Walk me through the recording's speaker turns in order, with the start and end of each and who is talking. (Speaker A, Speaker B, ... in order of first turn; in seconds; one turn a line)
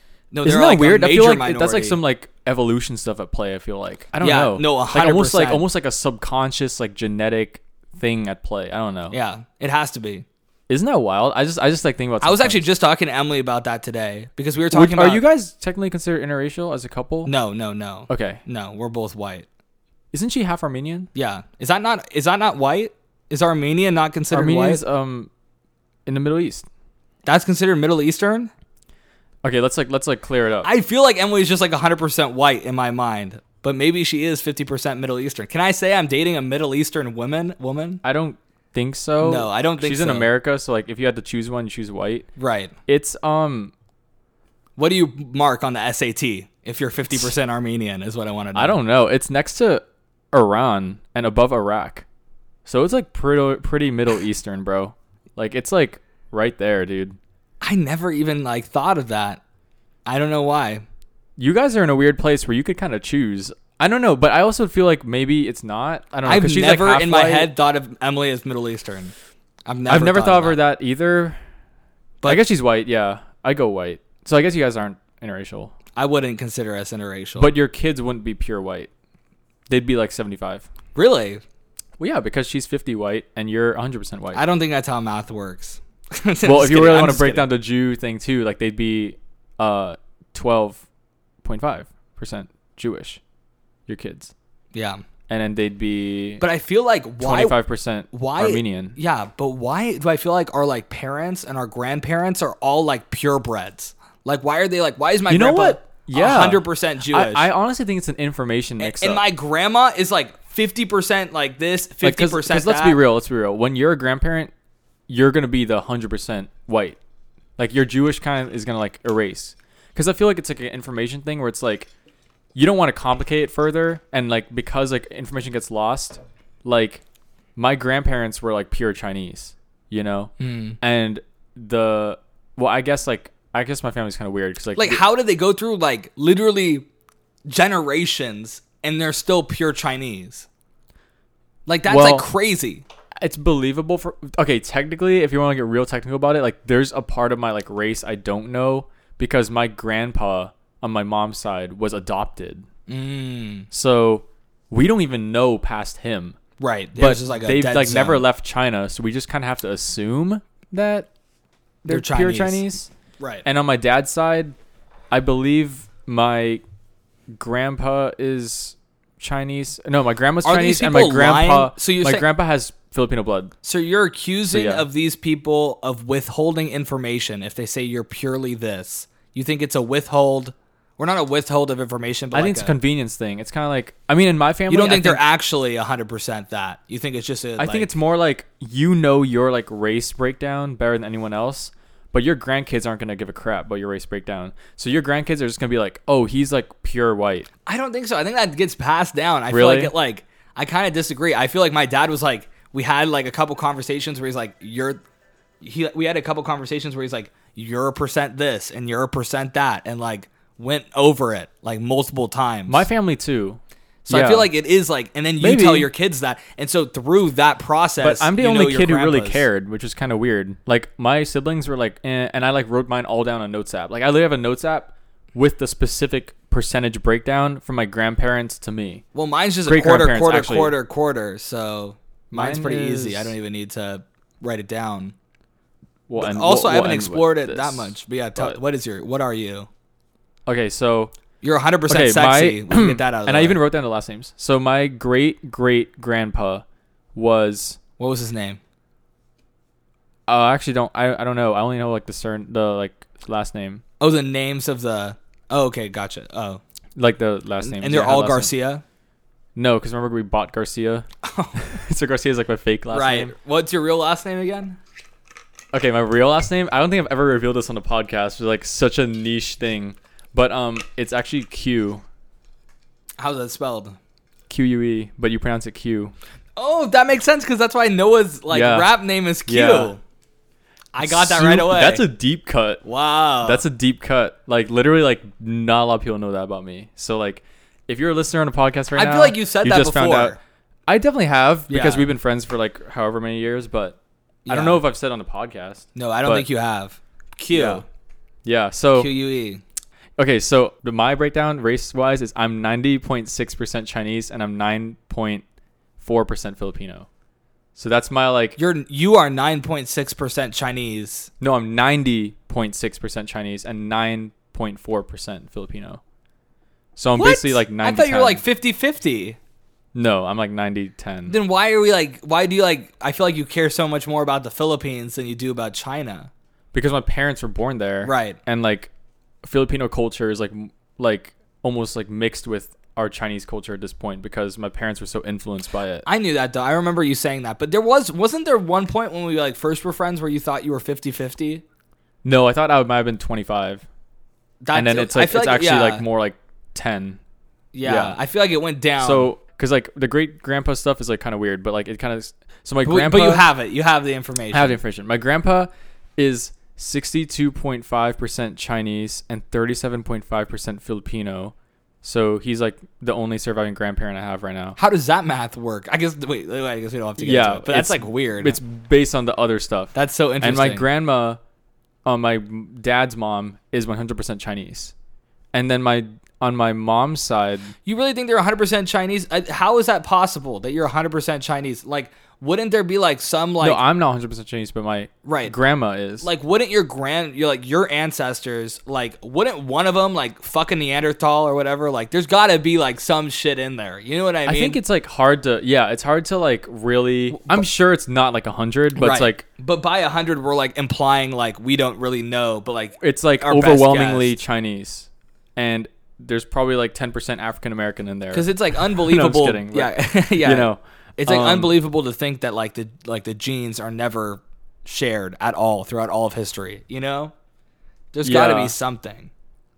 Speaker A: 0.3-2.0
Speaker B: 0.4-9.2
Speaker A: 4.2-5.6
Speaker A: 9.1-10.2
Speaker B: 10.7-12.6
Speaker A: 12.2-15.2
Speaker B: 14.7-17.3
Speaker A: 17.2-19.5
Speaker B: 18.1-18.4
Speaker B: 20.1-21.1
Speaker A: 21.1-24.8
Speaker B: 24.3-25.3
Speaker B: 26.1-26.7
Speaker A: 27.2-28.5
Speaker B: 29.4-30.7
Speaker A: 30.6-38.0
Speaker B: 38.0-42.3
Speaker A: 39.2-40.3
Speaker A: 42.4-42.7
Speaker B: 42.9-43.7
Speaker A: 44.8-48.8
Speaker B: 48.5-52.0
Speaker B: 52.6-57.2
Speaker A: 57.6-59.4
Speaker A: 60.0-60.8
Speaker B: 61.4-67.5
Speaker A: 66.2-69.1
Speaker A: 69.7-70.6
Speaker B: 69.9-71.4
Speaker B: 72.2-75.7
Speaker A: 76.0-77.5
Speaker B: 77.4-78.9
Speaker B: 79.7-80.7
Speaker A: 80.9-81.4
Speaker B: 82.0-84.4
Speaker A: 84.3-87.5
Speaker B: 86.4-90.8
Speaker B: 91.4-93.2
Speaker B: 93.9-94.3
Speaker A: 94.7-95.0
Speaker B: 95.3-96.4
Speaker A: 96.4-97.6
Speaker B: 97.2-99.0
Speaker A: 98.1-107.5
Speaker B: 105.3-109.2
Speaker A: 108.8-113.0
Speaker B: 112.0-114.5
Speaker B: 115.1-117.0
Speaker B: 117.6-121.9
Speaker B: 122.5-127.0
Speaker B: 127.5-135.0
Speaker A: 130.4-130.8
Speaker A: 134.8-136.9
Speaker A: 137.4-140.5
Speaker A: 141.7-142.8
Speaker B: 141.8-142.3
Speaker B: 143.2-152.7
Speaker A: 152.9-153.7
Speaker B: 153.7-156.4
Speaker A: 156.6-158.2
Speaker B: 157.0-161.1
Speaker B: 161.8-162.9
Speaker A: 161.9-162.6
Speaker A: 163.2-163.4
Speaker B: 163.4-164.5
Speaker B: 165.1-166.6
Speaker B: 167.3-173.5
Speaker A: 170.4-172.2
Speaker A: 173.6-182.8
Speaker B: 174.5-174.9
Speaker B: 182.3-185.2
Speaker A: 184.7-187.9
Speaker B: 187.6-197.5
Speaker A: 197.7-205.0
Speaker B: 199.5-199.9
Speaker A: 205.6-212.9
Speaker B: 212.7-214.5
Speaker A: 214.1-219.4
Speaker B: 215.4-215.9
Speaker B: 218.0-229.0
Speaker A: 229.1-235.1
Speaker B: 229.7-230.8
Speaker B: 232.3-233.3
Speaker B: 236.1-238.6
Speaker A: 236.2-239.7
Speaker B: 240.4-241.1
Speaker A: 241.4-243.6
Speaker B: 241.9-247.8
Speaker A: 248.0-248.6
Speaker B: 250.3-253.8
Speaker A: 254.0-256.6
Speaker B: 256.9-258.5
Speaker A: 257.6-258.8
Speaker B: 259.6-263.3
Speaker A: 261.2-261.6
Speaker A: 262.9-264.8
Speaker B: 265.7-272.0
Speaker A: 273.2-274.0
Speaker B: 274.5-276.1
Speaker A: 276.6-280.0
Speaker B: 278.5-278.9
Speaker B: 279.4-279.9
Speaker A: 280.9-282.0
Speaker B: 281.0-282.8
Speaker A: 282.8-283.6
Speaker B: 283.4-296.5
Speaker A: 288.9-290.4
Speaker A: 291.7-292.1
Speaker A: 294.4-294.8
Speaker A: 295.9-297.9
Speaker B: 297.5-297.8
Speaker B: 298.4-299.1
Speaker A: 298.9-299.6
Speaker B: 300.2-305.4
Speaker B: 306.0-307.1
Speaker B: 307.7-308.6
Speaker A: 308.6-311.3
Speaker B: 311.4-316.0
Speaker B: 316.9-318.4
Speaker A: 317.2-319.4
Speaker B: 319.9-321.4
Speaker A: 321.3-326.3
Speaker B: 326.7-328.9
Speaker A: 328.0-328.4
Speaker B: 329.4-336.1
Speaker A: 336.1-341.6
Speaker B: 342.2-343.9
Speaker A: 344.6-346.0
Speaker B: 344.7-347.2
Speaker A: 347.7-349.3
Speaker B: 347.8-348.2
Speaker B: 349.0-353.5
Speaker A: 352.8-354.8
Speaker B: 354.5-364.8
Speaker A: 364.8-368.6
Speaker B: 367.2-371.4
Speaker A: 369.9-370.9
Speaker B: 372.1-374.9
Speaker B: 375.5-377.7
Speaker A: 377.9-383.8
Speaker B: 383.6-386.3
Speaker A: 385.2-385.5
Speaker A: 386.2-394.8
Speaker B: 394.5-399.4
Speaker A: 397.3-397.6
Speaker A: 399.0-404.4
Speaker B: 403.0-411.7
Speaker A: 408.3-417.3
Speaker A: 418.1-419.3
Speaker B: 418.2-418.7